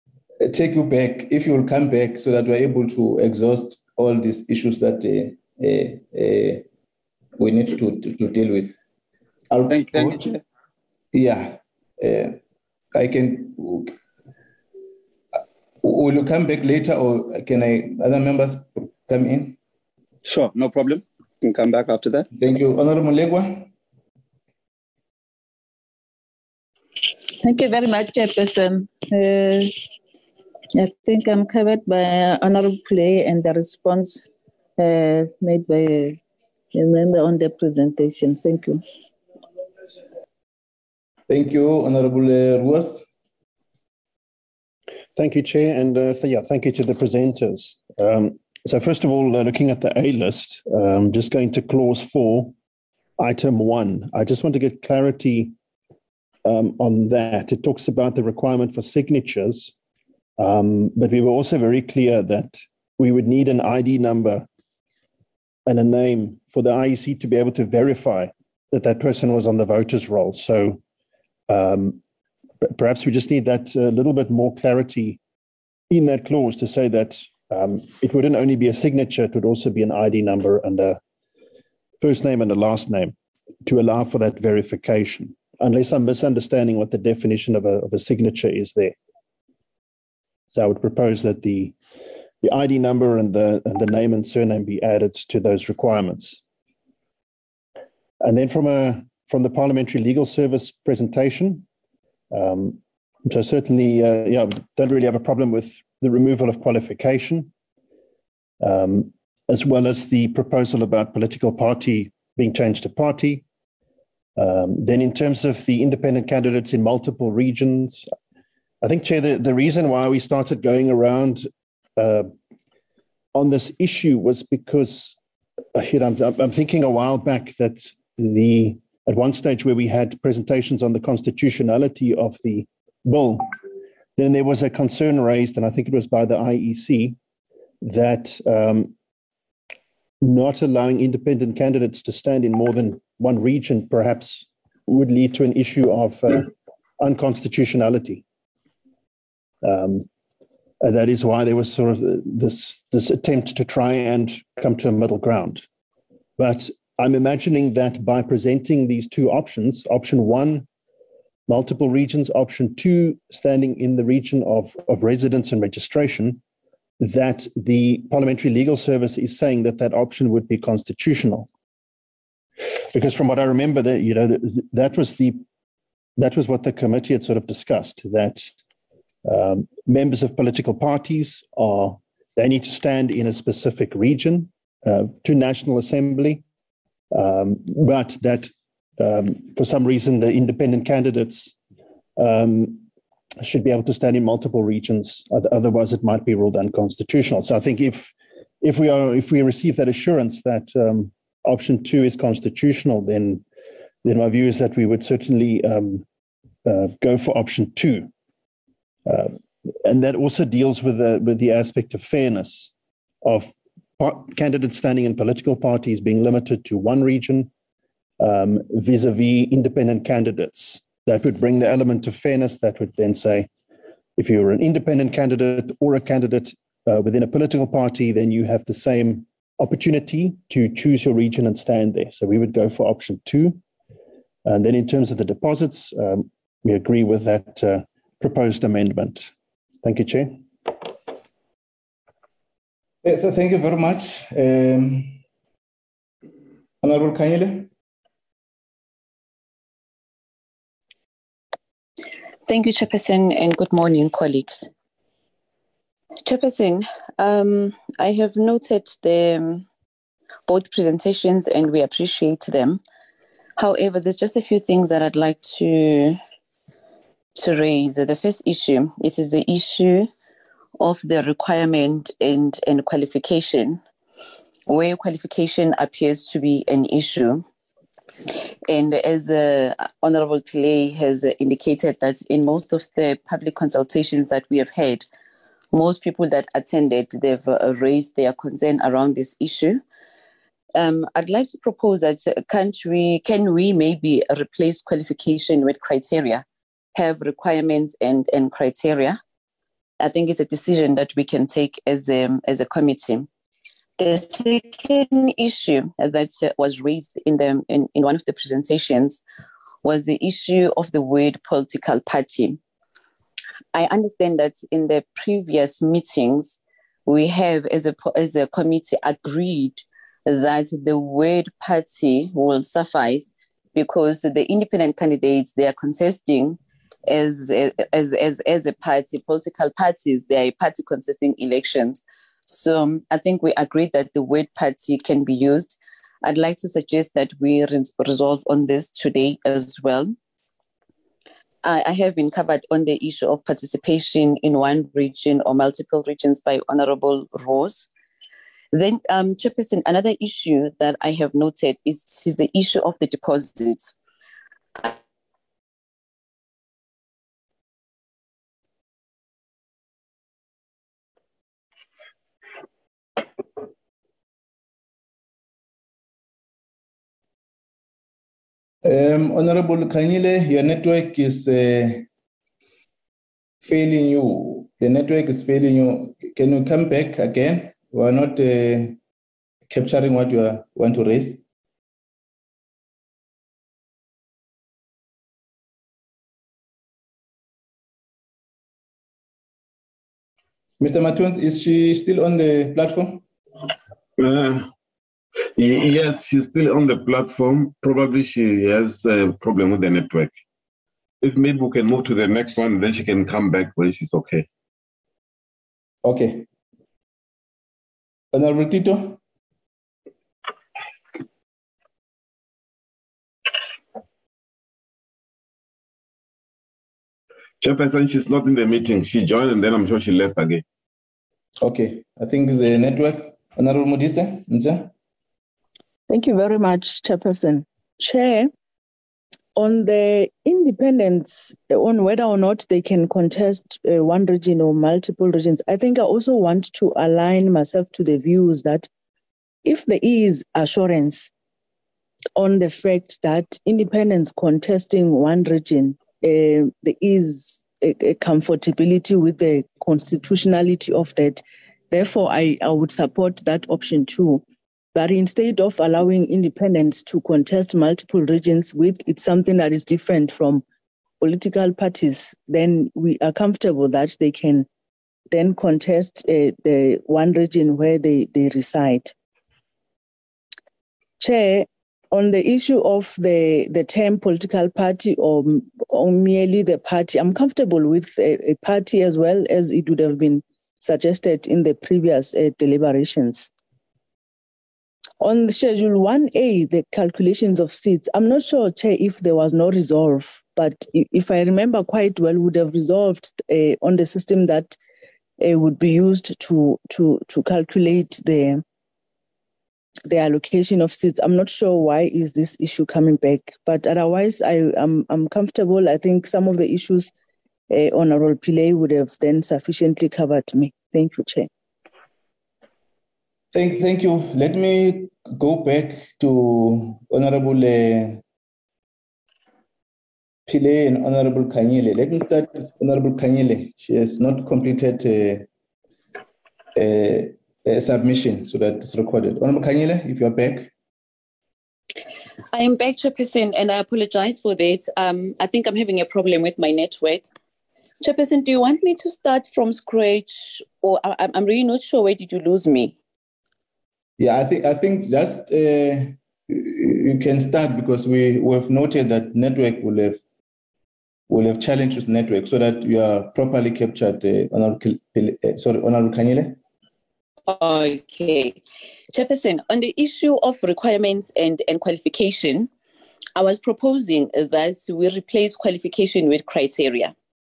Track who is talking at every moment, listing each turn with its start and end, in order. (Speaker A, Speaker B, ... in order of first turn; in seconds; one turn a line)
Speaker A: 0.4-6.6
Speaker A: 7.4-8.8
Speaker A: 9.5-10.4
Speaker B: 9.7-10.4
Speaker A: 11.1-12.4
Speaker A: 12.9-13.9
Speaker A: 15.8-19.6
Speaker B: 20.2-22.3
Speaker A: 22.3-23.7
Speaker C: 27.4-29.7
Speaker C: 30.7-34.3
Speaker C: 34.8-36.2
Speaker C: 36.7-38.8
Speaker A: 41.3-43.0
Speaker D: 45.1-52.5
Speaker D: 53.2-55.5
Speaker D: 56.4-59.7
Speaker D: 60.4-64.5
Speaker D: 65.7-70.8
Speaker D: 71.5-72.0
Speaker D: 72.6-75.2
Speaker D: 75.9-81.0
Speaker D: 82.0-88.9
Speaker D: 90.5-91.7
Speaker D: 92.4-96.4
Speaker D: 98.2-101.6
Speaker D: 102.3-107.5
Speaker D: 108.6-113.4
Speaker D: 114.4-118.0
Speaker D: 118.8-122.3
Speaker D: 123.3-125.2
Speaker D: 125.7-133.5
Speaker D: 134.2-137.2
Speaker D: 137.8-138.9
Speaker D: 140.2-148.2
Speaker D: 149.6-150.1
Speaker D: 150.8-155.6
Speaker D: 156.4-160.7
Speaker D: 161.5-166.4
Speaker D: 167.0-171.5
Speaker D: 172.9-175.4
Speaker D: 176.2-178.5
Speaker D: 179.2-186.4
Speaker D: 187.1-191.5
Speaker D: 192.2-192.8
Speaker D: 193.4-203.4
Speaker D: 204.0-206.0
Speaker D: 206.7-208.1
Speaker D: 209.1-212.7
Speaker D: 213.2-217.5
Speaker D: 218.2-223.5
Speaker D: 224.2-233.6
Speaker D: 234.4-239.3
Speaker D: 239.8-240.4
Speaker A: 243.0-245.2
Speaker A: 246.8-247.7
Speaker E: 252.5-254.7
Speaker E: 256.2-259.6
Speaker E: 260.5-262.8
Speaker E: 263.6-266.2
Speaker E: 267.4-270.1
Speaker E: 270.8-273.8
Speaker E: 274.7-277.4
Speaker E: 278.7-285.1
Speaker E: 285.7-289.8
Speaker E: 290.8-296.4
Speaker E: 296.9-299.2
Speaker E: 300.0-303.3
Speaker E: 304.0-309.2
Speaker E: 309.8-312.6
Speaker E: 313.7-340.1
Speaker E: 341.6-347.9
Speaker E: 348.7-353.9
Speaker A: 368.8-372.1
Speaker A: 373.6-379.0
Speaker A: 379.7-381.4
Speaker A: 390.8-393.2
Speaker F: 394.2-394.7
Speaker F: 395.6-400.4
Speaker F: 401.2-404.4
Speaker A: 406.0-406.4
Speaker A: 408.3-409.2
Speaker F: 417.6-420.6
Speaker A: 421.6-424.9
Speaker G: 426.1-428.5
Speaker G: 429.6-438.9
Speaker G: 439.6-441.3
Speaker G: 442.4-454.4
Speaker G: 454.9-460.6
Speaker G: 461.2-464.7
Speaker G: 465.3-469.1
Speaker G: 471.2-483.5
Speaker G: 485.2-494.8
Speaker G: 495.4-498.6
Speaker G: 500.1-507.1
Speaker G: 507.7-511.5
Speaker A: 513.5-518.2
Speaker A: 520.5-525.5
Speaker A: 526.8-530.7
Speaker E: 532.5-537.2
Speaker E: 538.0-543.0
Speaker A: 544.2-550.2
Speaker A: 551.3-556.6
Speaker E: 557.5-558.6
Speaker E: 559.1-562.7
Speaker E: 563.4-567.1